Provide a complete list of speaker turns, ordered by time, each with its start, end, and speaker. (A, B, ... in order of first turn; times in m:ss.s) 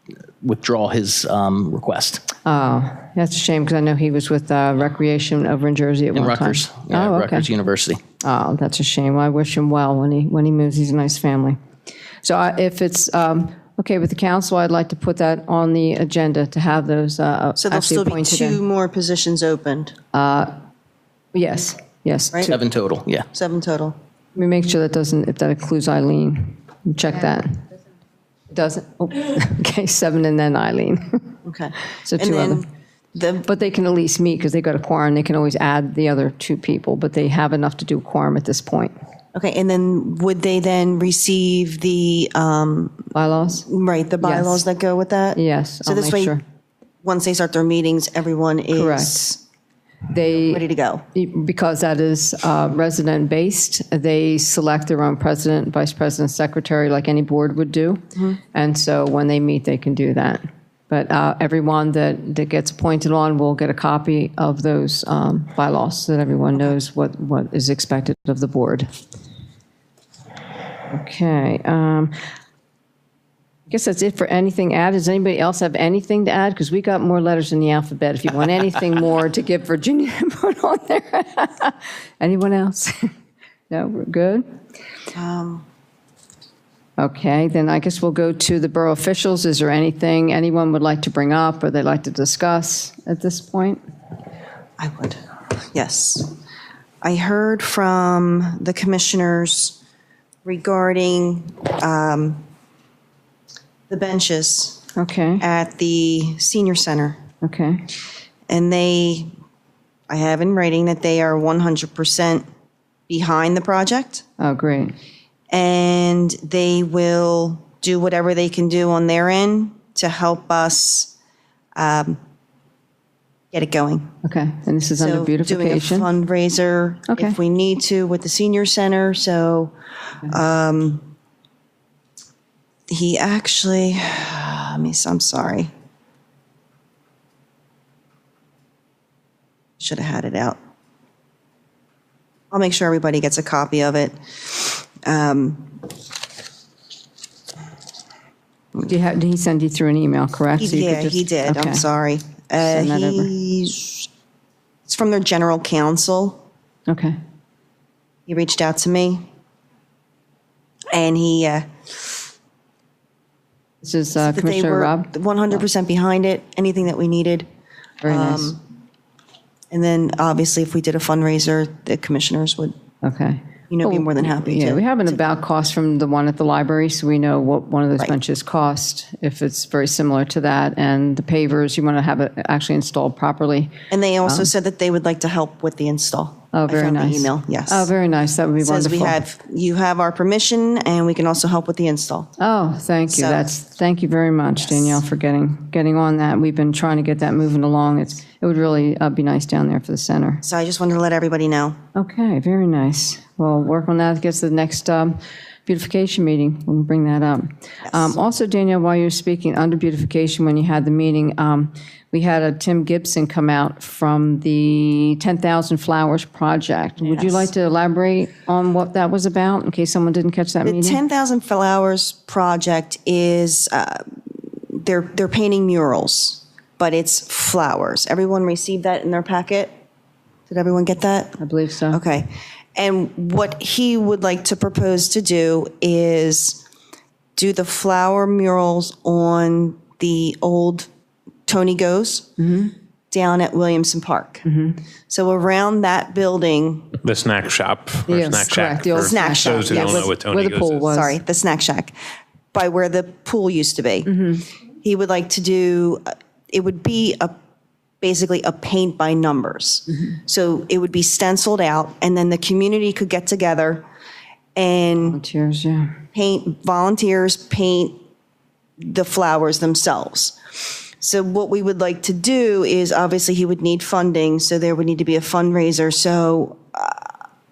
0:00.4-0:02.2 A
0:02.4-0:07.5 B
0:06.1-0:08.0 A
0:08.2-0:11.6 B
0:12.2-0:18.6 B
0:17.6-0:20.0 C
0:20.1-0:20.5 B
0:21.3-0:22.6 B
0:22.5-0:23.3 A
0:23.3-0:24.0 C
0:24.4-0:27.6 B
0:28.5-0:31.2 B
0:31.4-0:33.5 C
0:32.0-0:32.6 B
0:33.5-0:38.9 B
0:39.4-0:43.0 C
0:43.1-0:43.7 B
0:43.6-0:46.4 C
0:44.2-0:44.6 B
0:45.4-0:46.4 B
0:47.0-0:49.4 C
0:48.7-0:49.2 B
0:50.1-1:08.9 B
0:50.3-0:51.0 C
1:10.9-1:12.1 B
1:13.7-1:23.1 B
1:23.7-1:24.5 B
1:25.2-1:25.6 C
1:27.0-1:33.8 B
1:34.8-1:36.3 C
1:37.0-1:39.8 C
1:40.4-1:42.4 C
1:43.9-1:44.8 C
1:45.0-1:45.4 B
1:45.4-1:47.2 C
1:47.4-1:47.8 B
1:48.5-1:49.3 C
1:50.1-1:52.4 C
1:53.1-1:54.2 C
1:54.4-1:55.0 B
1:55.5-2:01.1 C
2:01.8-2:02.2 C
2:03.5-2:04.1 C
2:04.2-2:06.1 B
2:05.0-2:09.7 C
2:07.1-2:07.4 B
2:10.3-2:11.1 C
2:12.9-2:15.7 C
2:19.8-2:20.6 C
2:22.5-2:25.8 C
2:28.8-2:31.8 B
2:30.6-2:34.1 C
2:32.6-2:33.3 B
2:34.9-2:36.4 C
2:36.9-2:37.2 B
2:38.3-2:39.2 C
2:40.9-2:42.1 C
2:43.8-2:45.6 B
2:44.2-2:47.5 C
2:48.0-2:48.5 B
2:48.1-2:48.6 C
2:49.7-2:52.7 C
2:53.0-3:03.7 B
2:53.7-2:55.3 C
3:03.9-3:07.9 C
3:06.5-3:09.2 B
3:08.6-3:12.3 C
3:12.4-3:20.4 B
3:13.1-3:13.5 C
3:14.7-3:15.0 C
3:20.4-3:21.8 C
3:22.0-3:41.0 B
3:27.9-3:28.1 C
3:37.0-3:37.5 C
3:40.6-3:49.7 C
3:50.5-3:51.4 C
3:51.4-3:52.0 B
3:51.9-3:56.6 C
3:57.4-4:00.9 C
4:01.5-4:02.3 C
4:02.4-4:02.7 B
4:03.1-4:04.4 C
4:04.4-4:04.8 B
4:05.1-4:07.0 C
4:07.0-4:10.9 D
4:08.1-4:11.2 B
4:09.0-4:10.1 C
4:10.9-4:11.9 C
4:12.5-4:14.2 C
4:14.1-4:14.4 B
4:14.8-4:17.3 C
4:18.0-4:23.8 C
4:24.6-4:25.2 C
4:25.1-4:26.0 B
4:26.1-4:28.0 C
4:28.8-4:30.4 C
4:31.0-4:37.1 C